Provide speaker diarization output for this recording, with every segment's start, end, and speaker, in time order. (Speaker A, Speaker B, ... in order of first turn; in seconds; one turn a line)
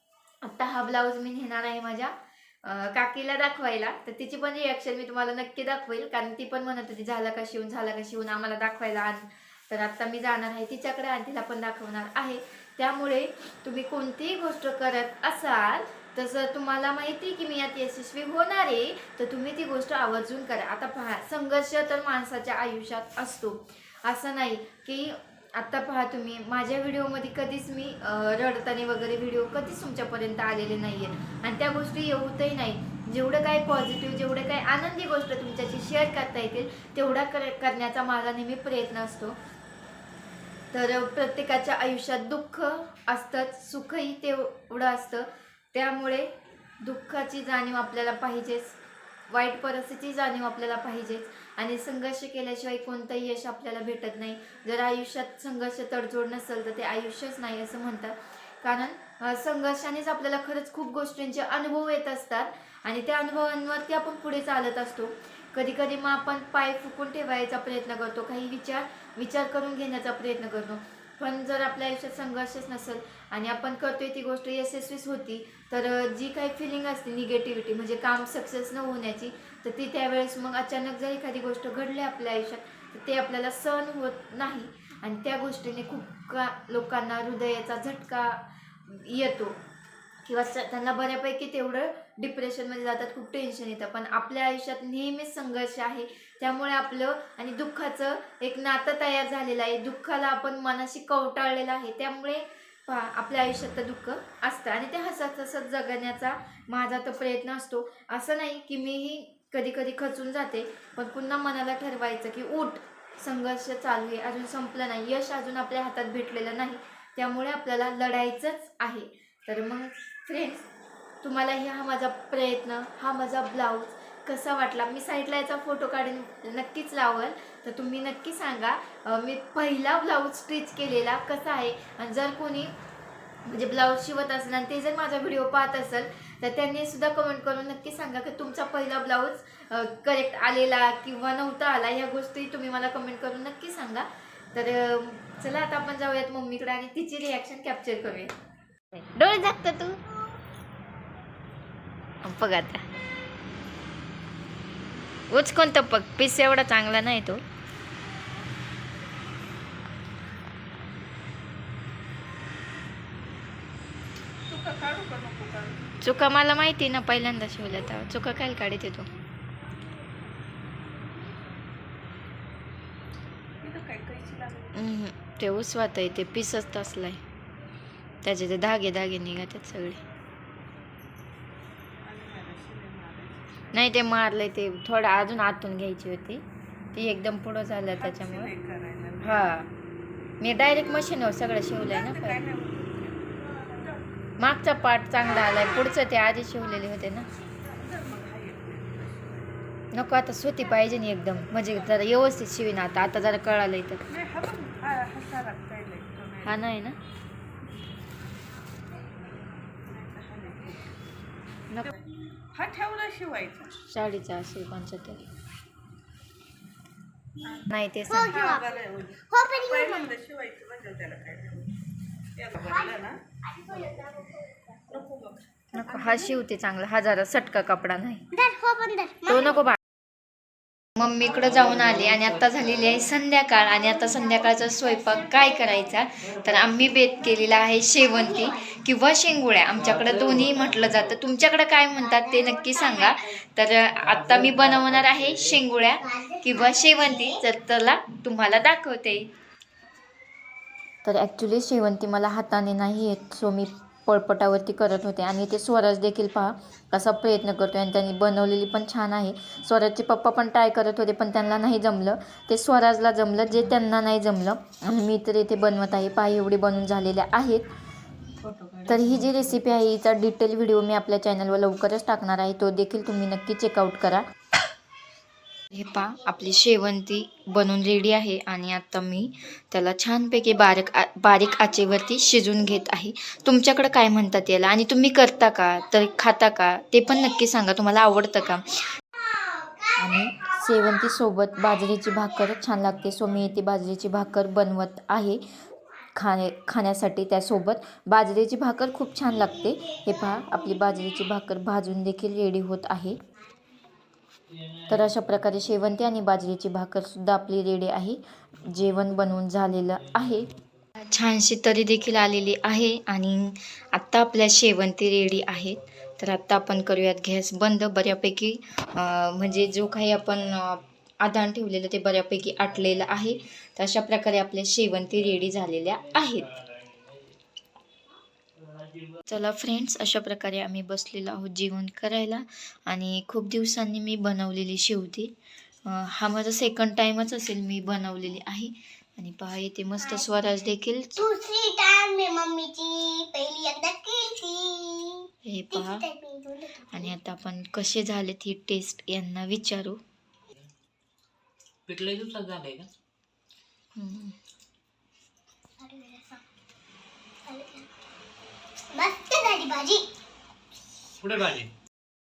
Speaker A: 0.4-39.4
Speaker A: 40.7-46.3
Speaker A: 46.8-48.8
Speaker A: 49.3-89.6
Speaker A: 90.2-120.7
Speaker A: 121.2-132.7
Speaker A: 133.4-148.3
Speaker A: 148.9-150.0
Speaker A: 152.2-152.9
Speaker A: 155.3-157.4
Speaker B: 164.5-166.0
Speaker A: 166.0-169.1
Speaker B: 173.6-174.8
Speaker A: 174.7-177.2
Speaker A: 178.2-180.0
Speaker B: 182.0-183.9
Speaker A: 183.7-186.4
Speaker A: 186.9-188.5
Speaker B: 187.9-189.5
Speaker A: 189.2-189.7
Speaker A: 190.4-192.4
Speaker B: 191.8-194.1
Speaker A: 194.4-197.3
Speaker B: 197.7-199.5
Speaker A: 199.9-204.0
Speaker B: 204.1-206.6
Speaker A: 206.4-207.0
Speaker B: 209.8-210.9
Speaker B: 211.8-213.7
Speaker A: 213.8-215.2
Speaker C: 217.4-218.7
Speaker B: 217.4-221.8
Speaker A: 217.7-218.5
Speaker C: 219.3-220.1
Speaker B: 222.3-223.2
Speaker C: 222.6-224.7
Speaker B: 224.9-226.3
Speaker A: 225.7-228.3
Speaker C: 228.3-229.7
Speaker A: 229.3-229.8
Speaker A: 231.0-249.3
Speaker D: 231.2-232.9
Speaker C: 233.6-236.0
Speaker D: 236.2-236.5
Speaker C: 237.0-238.8
Speaker D: 239.7-241.2
Speaker C: 241.9-243.2
Speaker D: 243.9-245.6
Speaker C: 246.0-247.4
Speaker A: 251.0-267.7
Speaker A: 268.9-274.2
Speaker A: 275.7-288.7
Speaker C: 276.0-276.6
Speaker C: 281.6-282.5
Speaker C: 289.1-291.1
Speaker A: 290.0-295.4
Speaker C: 291.6-292.6
Speaker A: 296.1-303.2
Speaker C: 299.3-301.2
Speaker D: 304.5-305.6
Speaker A: 304.9-326.5
Speaker D: 309.9-310.8
Speaker D: 311.9-312.8
Speaker D: 315.2-316.9
Speaker D: 319.3-320.9
Speaker D: 322.4-323.4
Speaker D: 325.0-327.4
Speaker D: 328.6-329.2
Speaker A: 329.3-335.3
Speaker A: 335.8-341.3
Speaker C: 340.0-340.3
Speaker C: 341.2-347.1
Speaker A: 345.4-346.1
Speaker A: 346.9-350.0
Speaker D: 351.9-352.9
Speaker A: 353.9-354.4
Speaker C: 355.8-356.4
Speaker C: 357.4-357.9
Speaker C: 358.9-360.1
Speaker D: 361.2-361.7